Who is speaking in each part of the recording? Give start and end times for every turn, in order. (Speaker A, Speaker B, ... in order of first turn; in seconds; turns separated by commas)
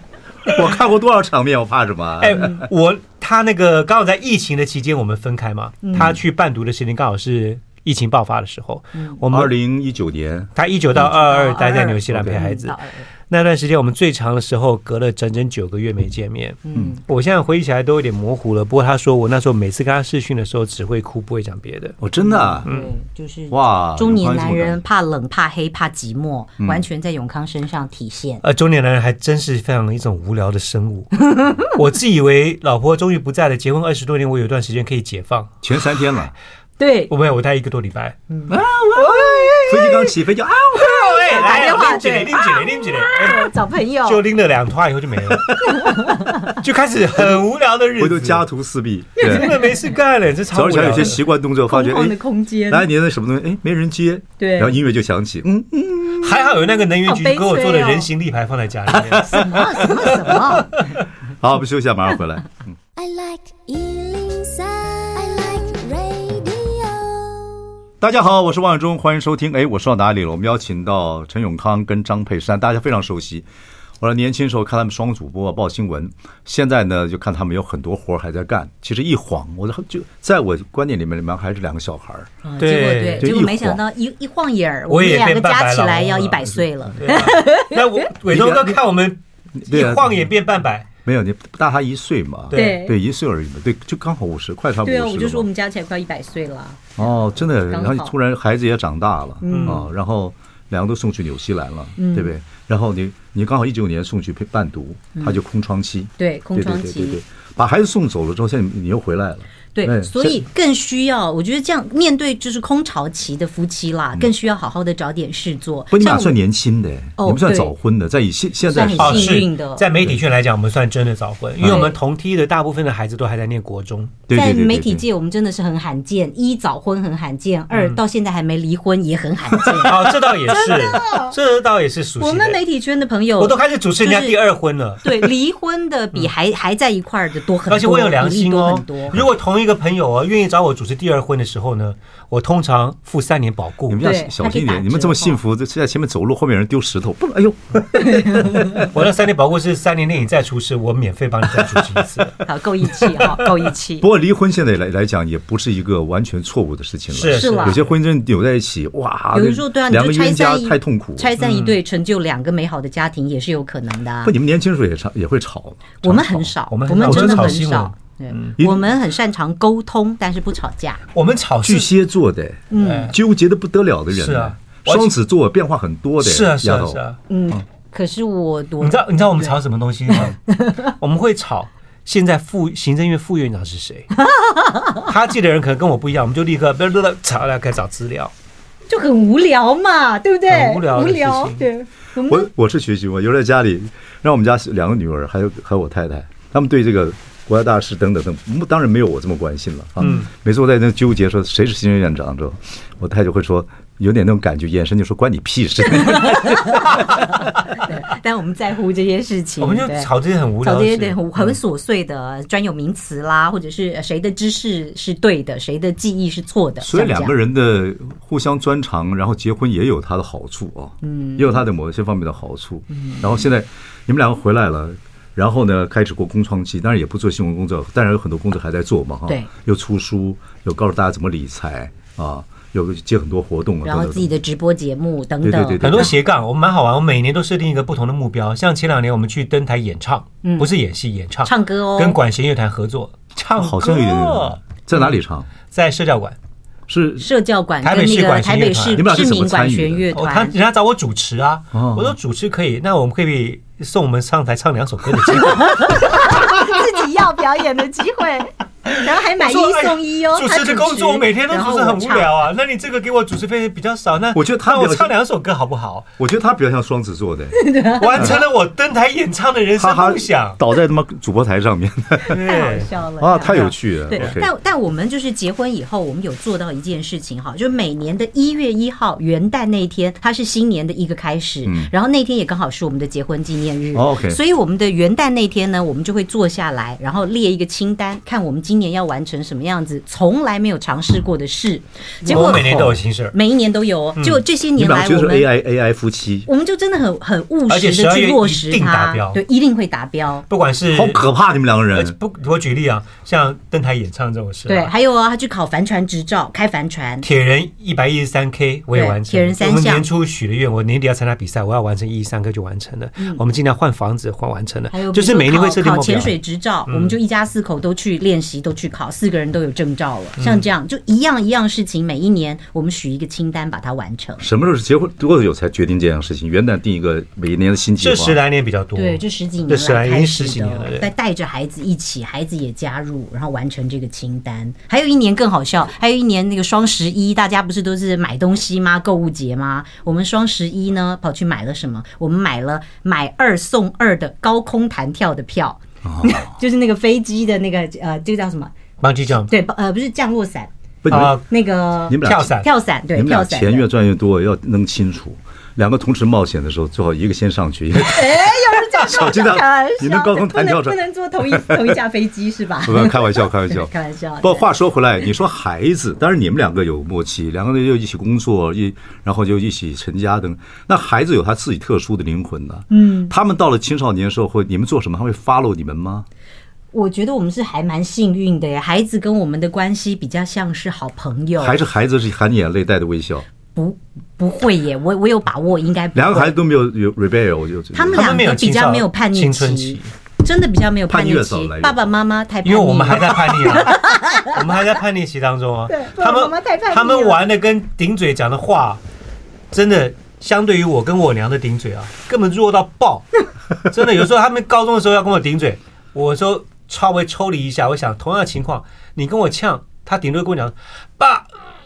Speaker A: 0.5-2.6, Speaker B: 2.2-9.5, Speaker C: 5.8-6.1, Speaker A: 9.3-10.5, Speaker B: 10.6-22.0, Speaker C: 11.0-13.1, Speaker A: 12.1-12.4, Speaker C: 16.6-17.0, Speaker A: 22.0-22.7, Speaker C: 22.2-28.4, Speaker B: 22.6-22.9, Speaker A: 23.5-24.8, Speaker B: 28.4-35.5, Speaker C: 31.2-31.7, Speaker A: 35.6-36.3, Speaker C: 36.8-37.1, Speaker B: 37.1-38.2, Speaker C: 38.3-40.1, Speaker A: 38.5-41.0, Speaker B: 40.7-43.5, Speaker C: 40.8-44.2, Speaker B: 44.0-48.4, Speaker C: 45.6-46.6, Speaker A: 48.0-49.6, Speaker B: 49.2-51.2, Speaker C: 49.2-49.7, Speaker A: 50.5-56.5, Speaker C: 51.7-52.9, Speaker C: 54.4-54.7, Speaker B: 56.2-60.9, Speaker C: 56.9-58.1, Speaker A: 58.9-59.6, Speaker C: 59.2-60.8, Speaker A: 61.3-62.8, Speaker D: 63.0-67.7, Speaker A: 68.0-73.5, Speaker A: 74.0-82.3, Speaker C: 82.4-88.0, Speaker B: 82.6-83.3, Speaker A: 83.2-83.8, Speaker B: 84.9-90.9, Speaker A: 88.3-88.8, Speaker A: 89.6-90.3, Speaker A: 91.0-95.5, Speaker B: 92.5-92.8, Speaker C: 92.5-93.0, Speaker C: 94.8-97.0, Speaker A: 97.0-110.4, Speaker C: 97.7-98.1, Speaker C: 99.4-99.9, Speaker B: 99.5-99.8, Speaker C: 102.0-102.3, Speaker C: 106.2-107.2, Speaker C: 109.7-116.3, Speaker A: 115.9-119.4, Speaker C: 117.2-117.7, Speaker C: 118.7-119.8, Speaker B: 119.0-124.2, Speaker A: 121.6-121.9, Speaker C: 121.6-122.0, Speaker A: 124.3-125.0, Speaker C: 124.3-131.3, Speaker B: 127.7-128.0, Speaker B: 129.8-132.6, Speaker C: 132.2-134.4, Speaker B: 133.4-135.3, Speaker C: 135.0-139.2, Speaker B: 137.7-144.0, Speaker A: 143.9-148.4, Speaker C: 144.0-145.4, Speaker C: 147.9-148.9, Speaker B: 148.8-152.4, Speaker C: 152.4-154.1, Speaker B: 153.0-153.3, Speaker A: 154.0-161.3, Speaker B: 157.1-157.9, Speaker C: 157.3-157.8, Speaker C: 159.3-164.3, Speaker B: 161.4-161.7, Speaker A: 164.2-166.5, Speaker C: 166.0-171.0, Speaker B: 166.7-168.6, Speaker A: 167.1-167.6, Speaker A: 168.6-168.8, Speaker B: 171.1-171.9, Speaker A: 171.6-177.0, Speaker C: 172.7-173.1, Speaker B: 172.8-173.1, Speaker B: 174.1-175.1, Speaker B: 176.2-177.2, Speaker C: 177.3-179.5, Speaker B: 178.8-184.1, Speaker C: 180.1-180.9, Speaker C: 184.1-185.1, Speaker B: 185.0-188.3, Speaker C: 188.9-192.5, Speaker B: 190.5-191.6, Speaker A: 192.2-207.1, Speaker C: 200.0-200.2, Speaker C: 205.9-210.1, Speaker B: 209.6-211.5, Speaker C: 210.6-217.3, Speaker A: 216.8-234.3, Speaker C: 221.0-221.6, Speaker C: 222.9-223.3, Speaker C: 233.8-235.8, Speaker A: 235.4-236.2, Speaker B: 235.8-245.1, Speaker C: 240.4-240.7, Speaker C: 241.4-242.2, Speaker A: 243.6-245.5, Speaker B: 245.7-246.3, Speaker A: 246.9-247.2, Speaker C: 247.2-250.5, Speaker B: 247.8-249.1, Speaker A: 248.9-250.1, Speaker B: 250.1-256.1, Speaker A: 251.7-252.1, Speaker C: 255.3-262.3, Speaker B: 258.9-266.1, Speaker A: 264.3-265.1, Speaker A: 266.2-267.6, Speaker C: 267.5-268.4, Speaker B: 267.9-270.6, Speaker A: 269.8-272.4, Speaker C: 272.3-295.5, Speaker B: 272.3-272.9, Speaker A: 273.2-274.5, Speaker B: 273.4-274.4, Speaker A: 281.6-281.9, Speaker A: 283.9-284.4, Speaker B: 292.2-293.4, Speaker A: 292.3-293.0, Speaker B: 294.1-294.4, Speaker A: 294.8-296.5, Speaker C: 296.5-300.4, Speaker B: 297.7-299.4, Speaker B: 300.5-301.2, Speaker A: 300.9-302.1, Speaker B: 301.9-304.9, Speaker C: 304.7-307.2, Speaker B: 307.2-316.4, Speaker C: 308.9-310.1, Speaker C: 314.9-324.4, Speaker B: 316.9-317.1, Speaker B: 320.4-320.6, Speaker A: 324.4-328.4, Speaker B: 328.0-331.1, Speaker C: 328.9-348.7, Speaker A: 346.0-346.5, Speaker B: 349.0-349.5, Speaker C: 349.4-353.9, Speaker A: 351.0-351.3, Speaker B: 351.1-351.4, Speaker A: 352.1-362.0, Speaker B: 352.2-352.7, Speaker C: 358.0-364.7, Speaker A: 362.8-376.3, Speaker C: 372.9-373.3, Speaker C: 376.9-381.8, Speaker A: 381.6-383.4, Speaker C: 383.7-386.6, Speaker A: 386.1-388.4, Speaker C: 387.9-394.9, Speaker B: 388.1-390.1, Speaker A: 391.1-392.0, Speaker B: 392.6-399.0, Speaker C: 395.9-397.4, Speaker B: 399.7-411.5